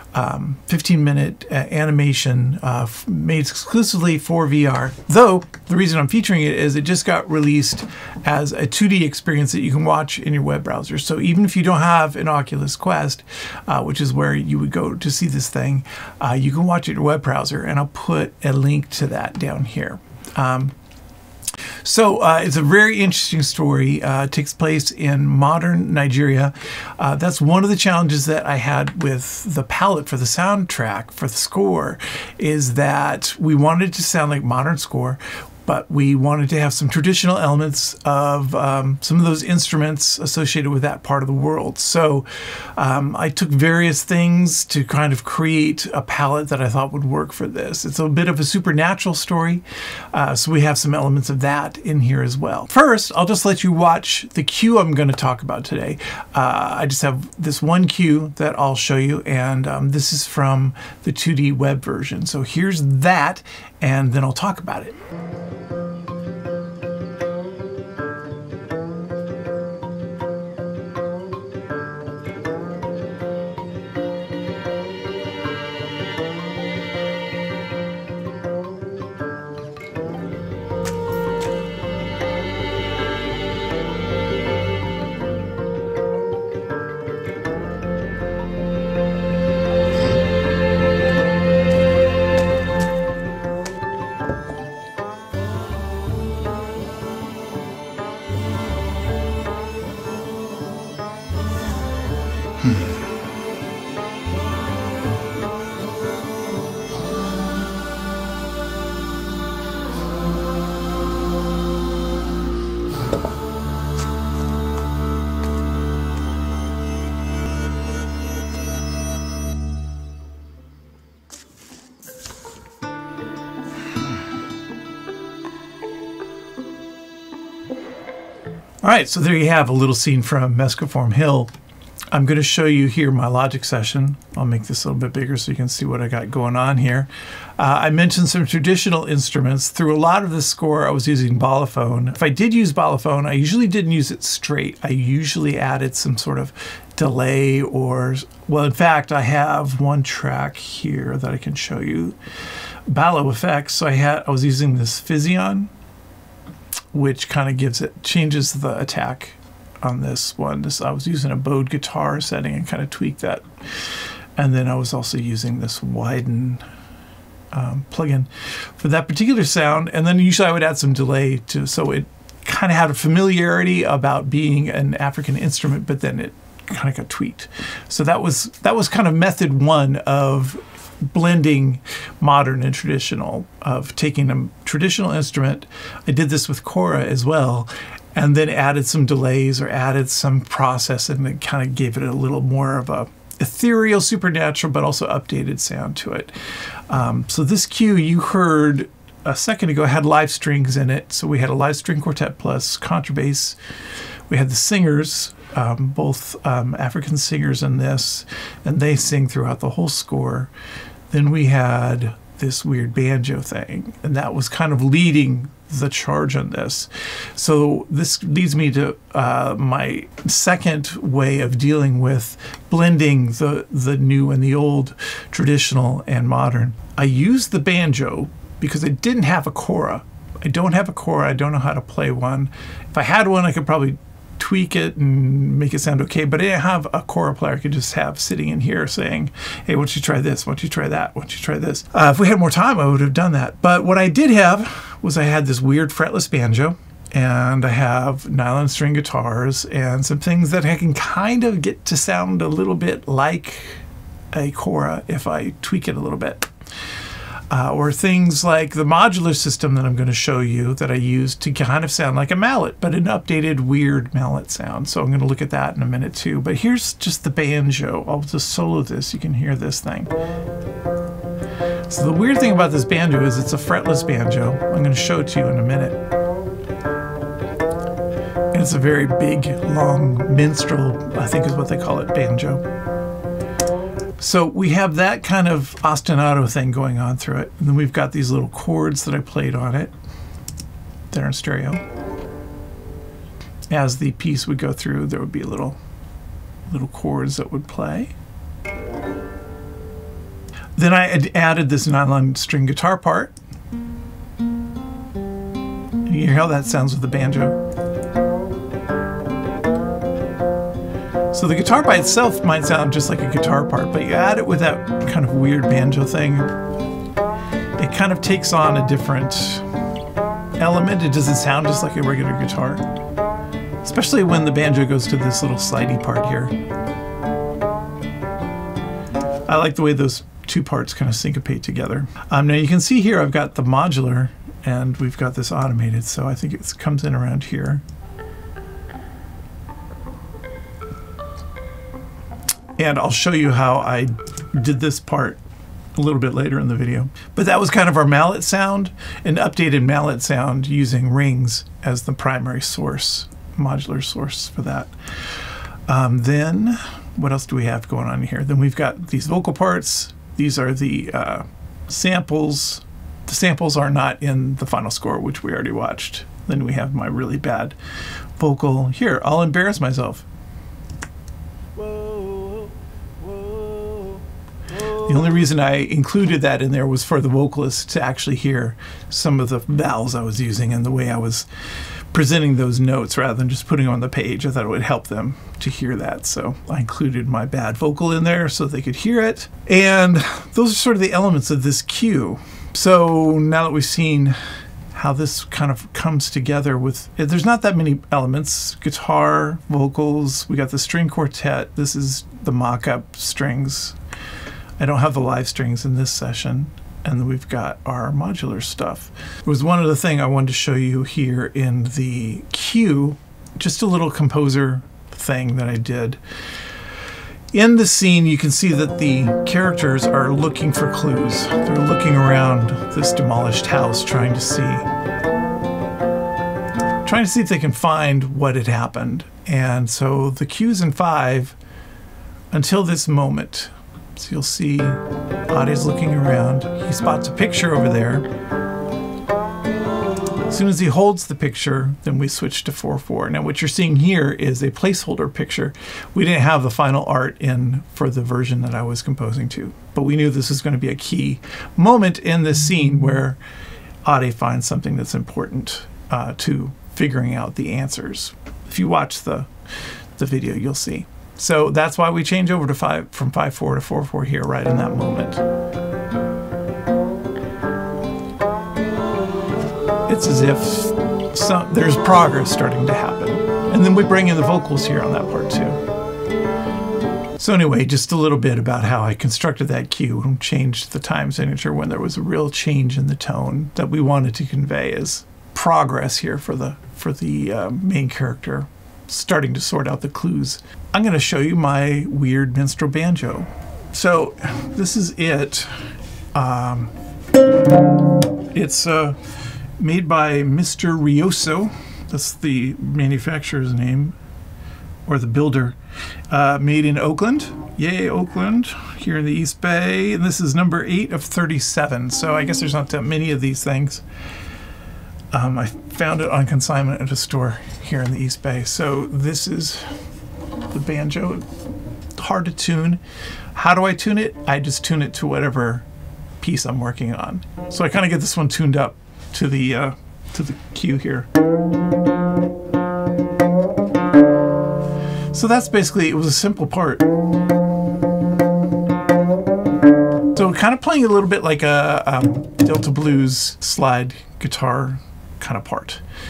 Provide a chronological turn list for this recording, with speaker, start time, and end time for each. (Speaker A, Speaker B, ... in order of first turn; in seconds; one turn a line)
Speaker A: 0.1-20.8
Speaker A: 21.8-65.0
Speaker A: 128.8-131.5
Speaker A: 132.1-152.2
Speaker A: 152.9-155.7
Speaker A: 156.9-166.6
Speaker A: 167.5-196.4
Speaker A: 196.9-203.6
Speaker A: 204.3-210.5
Speaker A: 211.1-256.5
Speaker A: 257.5-270.1
Speaker A: 271.9-276.0
Speaker A: 278.5-282.6
Speaker A: 284.2-289.9
Speaker A: 291.1-291.8
Speaker A: 293.7-295.8
Speaker A: 296.7-298.1
Speaker A: 300.8-303.4
Speaker A: 306.1-307.6
Speaker A: 311.3-316.6
Speaker A: 317.8-319.7
Speaker A: 320.6-322.9
Speaker A: 323.8-326.6
Speaker A: 329.4-337.8
Speaker A: 342.8-345.4
Speaker A: 345.9-367.8
Speaker A: 368.4-370.3
Speaker A: 372.0-372.6
Speaker A: 374.7-381.5
Speaker A: 382.1-394.4
Speaker A: 394.9-404.0
Speaker A: 404.8-416.2
Speaker A: 417.5-424.9
Speaker A: 427.0-431.6
Speaker A: 432.5-438.3
Speaker A: 440.5-453.4
Speaker A: 454.0-459.5
Speaker A: 460.1-465.4
Speaker A: 470.1-475.8
Speaker A: 477.4-496.9
Speaker A: 498.5-499.2
Speaker A: 499.8-504.2
Speaker A: 505.1-505.8
Speaker A: 506.3-514.0
Speaker A: 515.3-519.9
Speaker A: 520.7-521.5
Speaker A: 522.2-523.0
Speaker A: 523.5-525.9
Speaker A: 526.4-531.3
Speaker A: 535.3-537.1
Speaker A: 540.3-546.0